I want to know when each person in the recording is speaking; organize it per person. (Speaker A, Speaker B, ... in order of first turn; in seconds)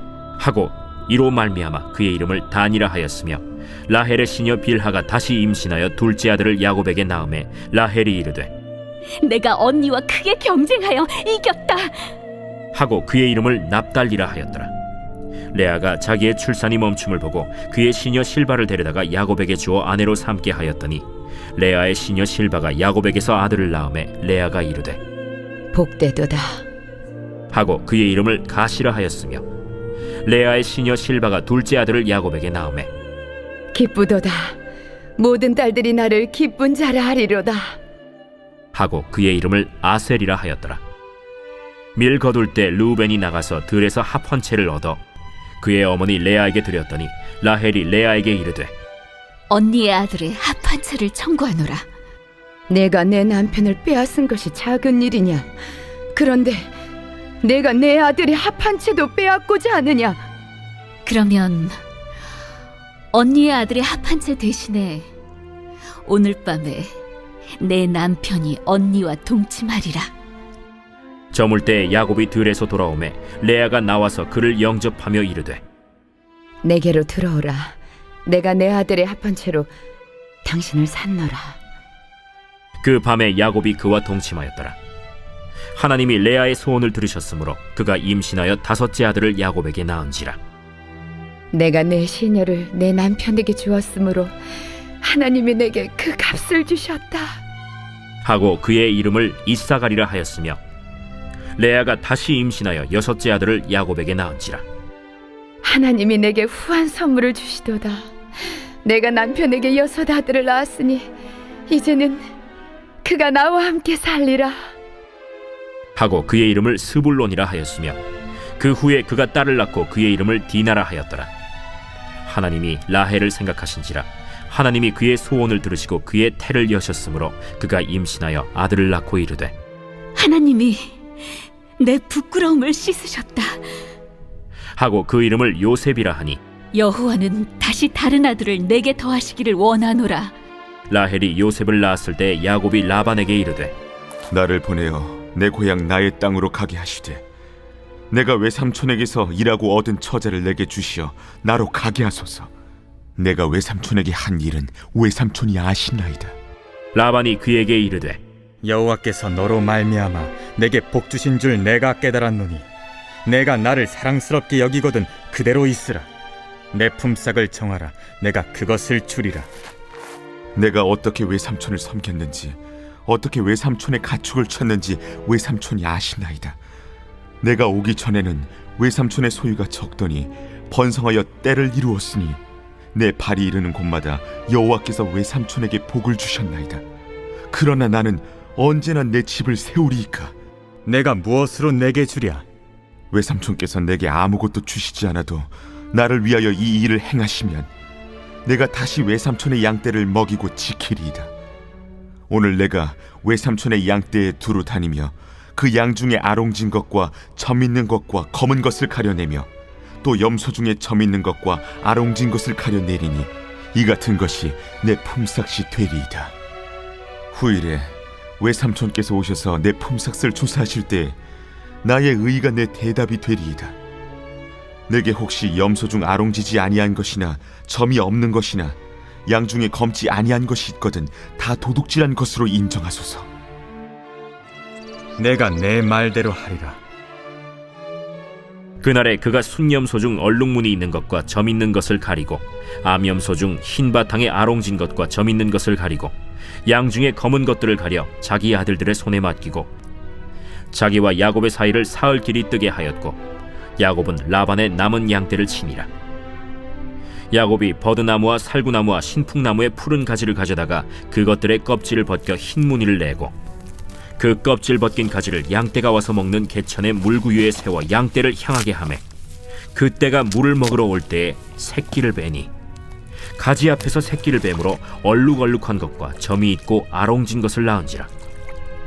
Speaker A: 0.4-8.5, 12.7-14.7, 15.5-21.0, 21.6-25.0, 27.5-29.4, 30.2-32.9, 38.7-40.8, 42.0-45.0, 45.6-48.7, 71.3-75.6, 82.8-84.8, 85.7-90.4, 98.2-100.6, 101.6-104.6, 116.0-118.0, 118.6-121.3, 122.2-129.5, 134.8-136.4, 140.9-143.7, 156.9-158.2, 238.8-246.1, 246.7-249.7, 250.7-253.2, 253.8-255.9, 257.3-263.3, 264.2-269.0, 269.7-272.5, 273.4-278.1
Speaker B: 9.2-11.9, 49.5-51.8, 61.0-61.8, 63.1-65.1, 66.0-66.9, 67.6-70.1, 130.2-133.6, 136.7-140.3
Speaker C: 25.7-26.6, 33.7-34.6, 35.2-37.8, 52.7-55.5, 56.1-56.7, 57.4-60.2, 76.6-79.7, 80.4-81.6, 91.5-94.3, 95.0-97.4, 105.6-108.1, 108.8-111.1, 111.7-112.3, 113.0-114.7
Speaker D: 144.3-147.2, 148.1-152.5, 153.2-156.3, 170.5-176.6, 177.4-182.4, 182.9-186.8, 187.5-190.3, 193.1-197.7, 198.4-201.3, 202.3-209.5, 210.0-216.3, 217.3-221.2, 221.8-223.8, 224.9-233.3
Speaker E: 158.6-162.7, 163.2-166.1, 166.7-169.5, 190.8-192.4, 235.2-236.8